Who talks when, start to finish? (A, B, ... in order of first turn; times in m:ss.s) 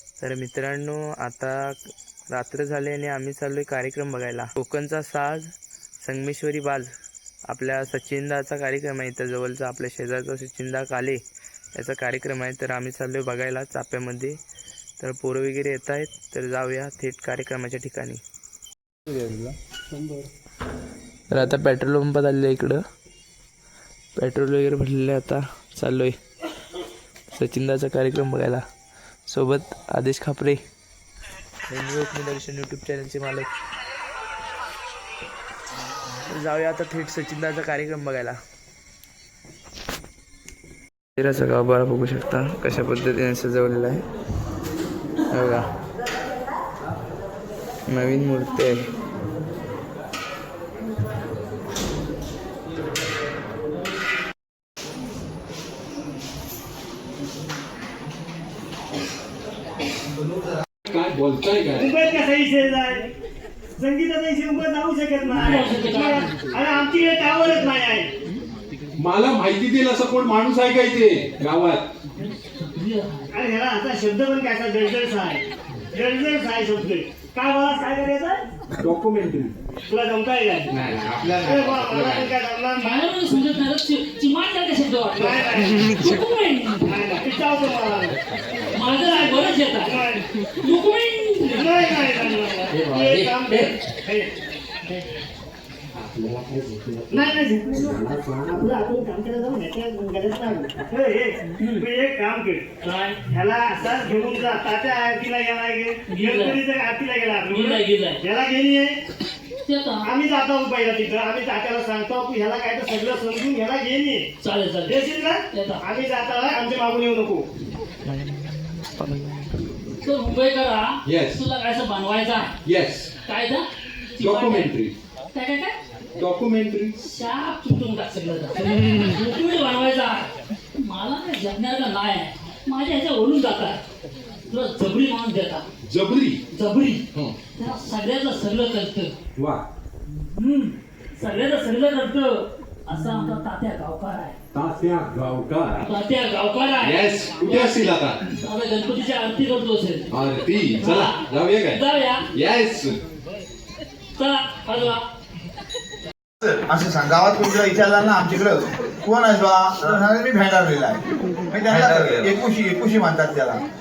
0:00.2-0:01.8 A
0:02.3-0:05.5 A
0:06.0-0:06.9 A
0:07.5-0:11.2 A
0:11.7-0:14.4 A
0:15.0-0:18.2 A
0:19.2-0:19.5 B
0:21.3-0:22.8 A
0:24.1-0:26.2 A
0:27.3-0:28.6 A
0:29.3-0:30.6 A
0:31.7-0:33.5 A
0:36.3-0:38.4 A
0:41.2-0:44.0 A
0:45.3-0:45.6 A
0:47.9-0:48.8 A
1:00.9-1:01.8 C
1:01.7-1:03.0 D
1:03.8-1:08.1 D
1:05.3-1:06.4 E
1:09.0-1:11.9 C
1:12.6-1:13.3 E
1:13.3-1:18.4 D
1:18.8-1:19.5 C
1:19.9-1:20.7 D
1:20.7-1:22.3 B
1:21.4-1:23.0 D
1:22.8-1:27.0 E
1:25.2-1:25.8 D
1:26.9-1:28.2 D
1:28.7-1:30.0 E
1:29.8-1:30.2 D
1:30.6-1:31.8 E
1:31.6-1:34.3 D
1:32.9-1:33.7 E
1:36.2-1:36.8 A
1:37.1-1:42.6 D
1:41.6-1:41.8 E
1:42.8-1:43.3 E
1:43.3-1:49.0 D
1:46.1-1:46.6 E
1:47.4-1:48.2 E
1:49.6-1:50.1 E
1:50.0-1:54.2 D
1:54.4-1:55.8 E
1:54.9-1:57.4 D
1:58.0-1:59.6 A
2:00.0-2:02.5 E
2:01.0-2:01.4 C
2:02.6-2:03.1 C
2:03.2-2:03.6 E
2:04.2-2:04.7 E
2:04.2-2:04.9 C
2:05.3-2:05.8 E
2:06.2-2:06.9 C
2:07.0-2:13.8 E
2:14.5-2:15.6 E
2:15.8-2:16.4 C
2:16.5-2:17.0 E
2:17.6-2:19.1 E
2:19.4-2:19.6 C
2:20.3-2:24.4 E
2:24.5-2:25.8 C
2:25.8-2:30.1 E
2:26.8-2:28.2 C
2:30.1-2:31.8 C
2:30.8-2:32.2 E
2:32.3-2:33.0 C
2:34.2-2:35.0 E
2:36.7-2:43.6 B
2:41.7-2:42.3 C